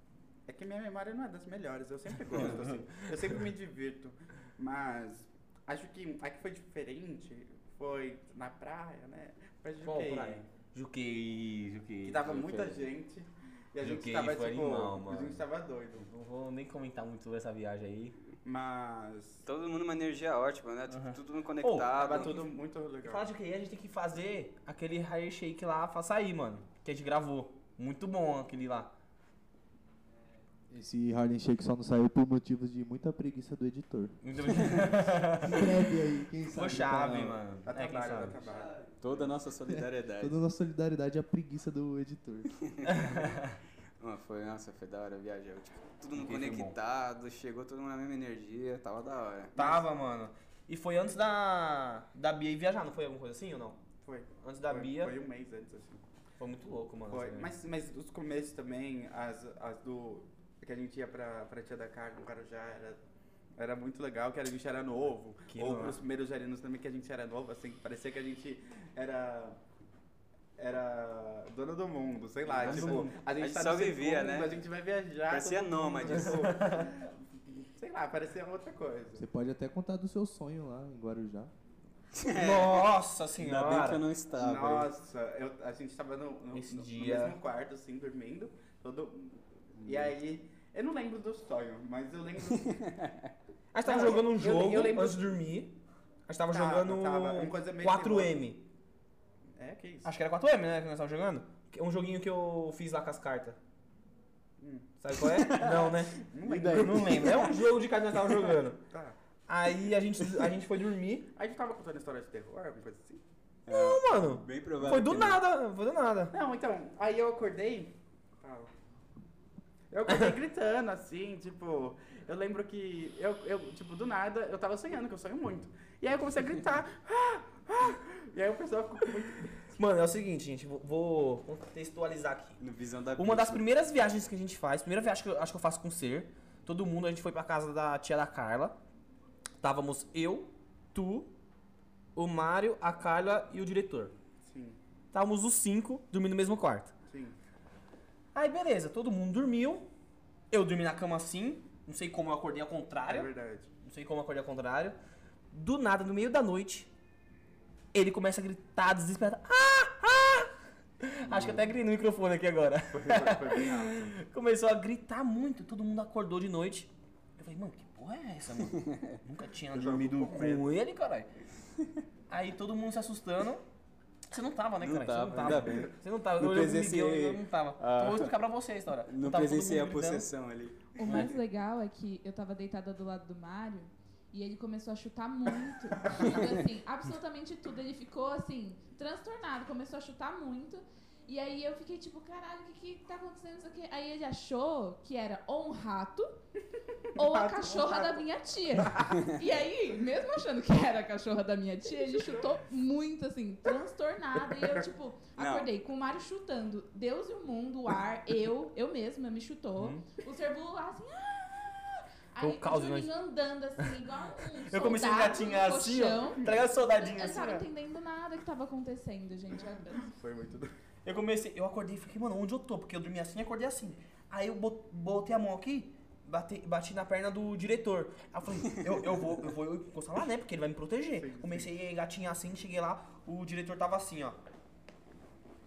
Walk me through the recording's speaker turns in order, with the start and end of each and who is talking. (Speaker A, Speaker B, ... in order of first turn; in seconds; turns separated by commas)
Speaker A: 0.5-10.5, Speaker B: 2.3-2.6, Speaker B: 9.8-12.4, Speaker A: 12.0-16.1, Speaker C: 12.3-12.8, Speaker B: 13.8-15.4, Speaker B: 16.1-18.1, Speaker A: 18.4-19.4, Speaker C: 19.4-22.4, Speaker B: 20.9-22.5, Speaker A: 21.9-23.3, Speaker B: 23.0-28.9, Speaker D: 30.7-37.4, Speaker B: 34.2-35.7, Speaker B: 36.5-38.4, Speaker A: 37.7-38.8, Speaker C: 39.0-40.4, Speaker D: 39.7-42.6, Speaker C: 42.6-43.4, Speaker B: 42.8-43.6, Speaker C: 44.0-49.7, Speaker B: 46.1-46.8, Speaker B: 49.6-53.8, Speaker A: 54.0-56.0, Speaker B: 54.4-55.1, Speaker B: 56.4-57.5, Speaker A: 57.1-63.0, Speaker A: 63.6-69.6, Speaker B: 65.5-66.0, Speaker A: 70.6-79.2, Speaker C: 72.5-74.6, Speaker B: 72.5-73.1, Speaker C: 75.3-76.6, Speaker B: 76.1-76.9, Speaker D: 79.1-81.5, Speaker C: 82.1-84.9, Speaker B: 82.3-84.0, Speaker A: 84.4-93.1, Speaker B: 86.5-87.4, Speaker B: 93.7-95.8, Speaker A: 93.8-95.4, Speaker B: 96.3-98.6, Speaker A: 96.5-98.4, Speaker A: 99.6-100.1, Speaker B: 100.0-103.6, Speaker A: 104.6-104.9, Speaker B: 105.0-108.8, Speaker C: 105.2-107.5, Speaker A: 106.2-107.5, Speaker A: 108.9-109.2, Speaker B: 109.5-111.3, Speaker A: 111.3-113.2, Speaker C: 113.7-115.4, Speaker B: 113.7-116.3, Speaker A: 116.3-118.7, Speaker A: 119.9-129.6, Speaker B: 129.7-132.6, Speaker C: 132.6-133.6, Speaker B: 133.2-138.8, Speaker B: 139.6-141.3, Speaker B: 142.1-144.1, Speaker A: 144.4-144.8, Speaker B: 145.1-146.9, Speaker A: 147.1-147.4, Speaker B: 148.3-149.9, Speaker B: 150.5-153.3, Speaker A: 153.1-153.7, Speaker B: 153.8-154.9, Speaker B: 155.5-156.9, Speaker B: 157.9-171.3, Speaker A: 161.3-161.6, Speaker A: 162.9-164.1, Speaker C: 168.7-169.0, Speaker A: 169.7-170.7, Speaker B: 172.3-173.6, Speaker B: 174.3-180.3, Speaker C: 174.8-178.3, Speaker A: 175.4-175.9, Speaker C: 179.1-181.4, Speaker E: 180.9-196.3, Speaker B: 181.0-181.3, Speaker C: 186.2-186.6, Speaker A: 197.1-199.4, Speaker E: 197.2-220.1, Speaker C: 205.4-205.7, Speaker B: 209.8-210.1, Speaker B: 212.4-213.1, Speaker B: 213.8-217.7, Speaker A: 220.0-220.7, Speaker B: 221.1-234.4, Speaker A: 231.1-231.7